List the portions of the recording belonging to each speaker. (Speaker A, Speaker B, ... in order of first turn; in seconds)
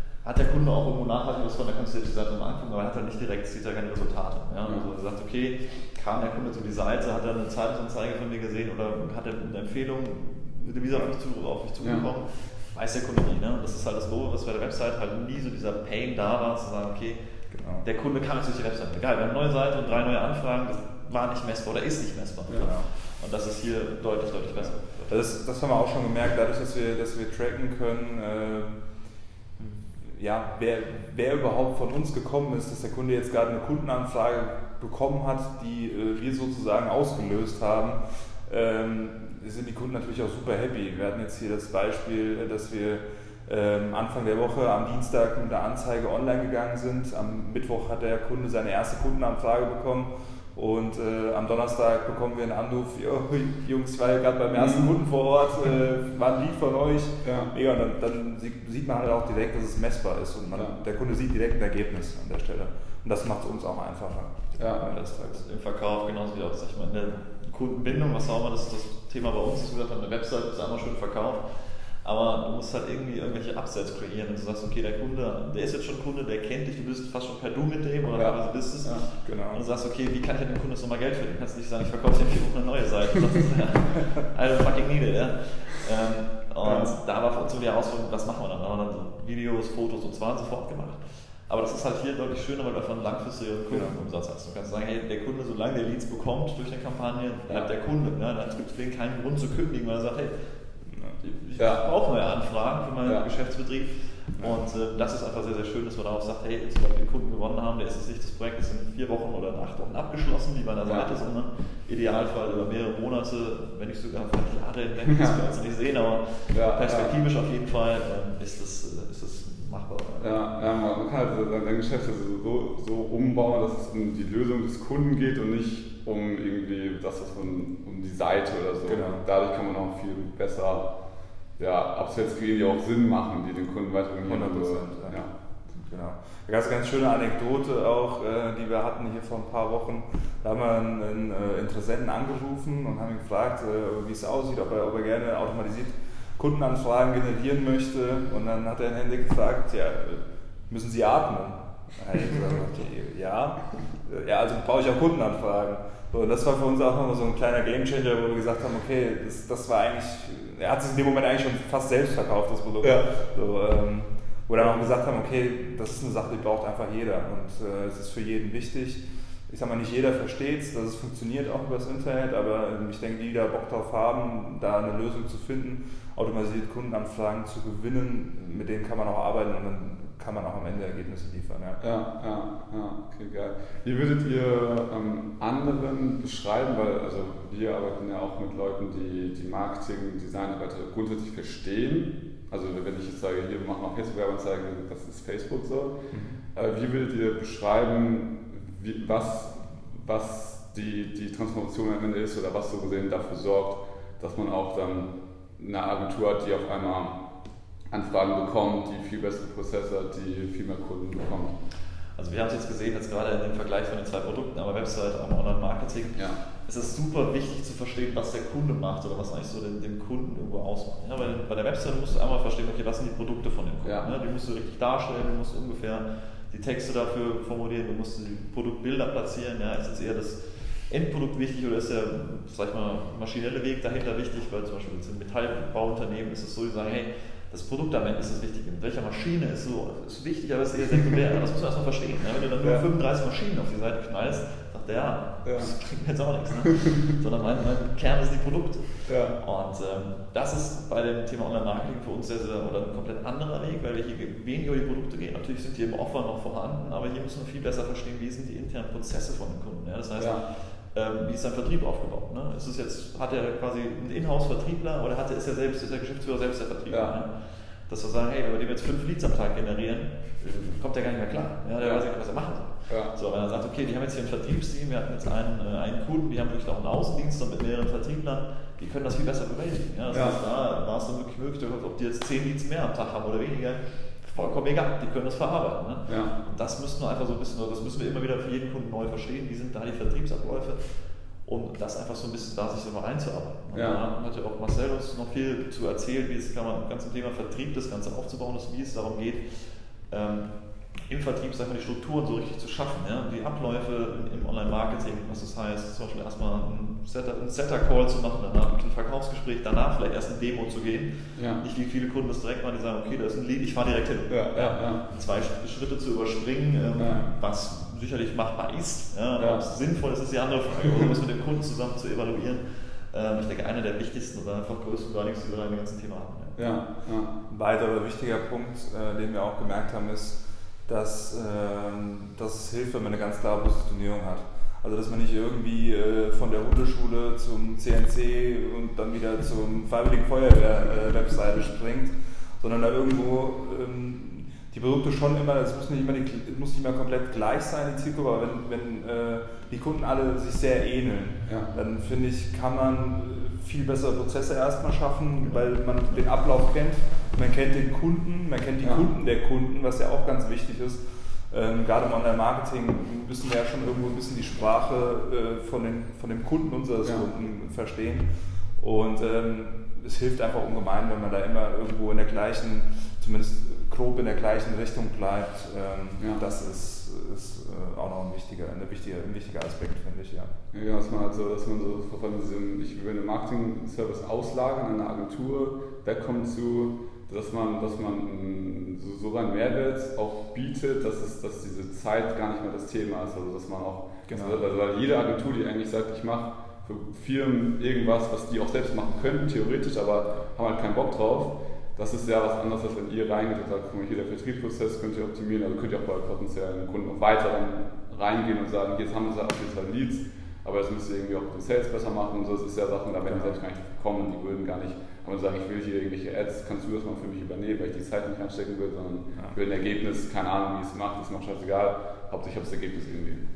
Speaker A: 0.2-17.2, 17.8-25.1, 64.9-100.3, 101.2-120.4, 212.2-326.6
Speaker B: 11.8-12.1, 54.5-54.9, 57.2-57.5, 64.6-64.9, 78.1-79.0, 86.6-86.9, 101.6-101.8, 116.5-117.2, 120.2-130.9, 131.6-135.3, 162.8-163.1, 181.8-207.2, 207.9-211.6, 223.8-224.1, 245.4-245.7, 249.1-249.4, 260.2-260.4, 266.9-267.2, 271.8-272.1, 272.9-273.1, 280.1-280.4, 286.1-286.3, 293.7-294.0, 311.4-311.6, 314.3-315.0, 317.0-317.3, 319.4-319.6, 326.6-327.3, 358.8-359.1, 380.7-423.5
Speaker C: 17.5-17.9, 22.5-22.9, 25.1-28.9, 29.6-65.4, 79.2-79.6, 93.7-94.0, 128.9-129.2, 134.2-181.8, 196.1-196.4, 327.5-380.5, 394.3-394.6, 413.3-413.6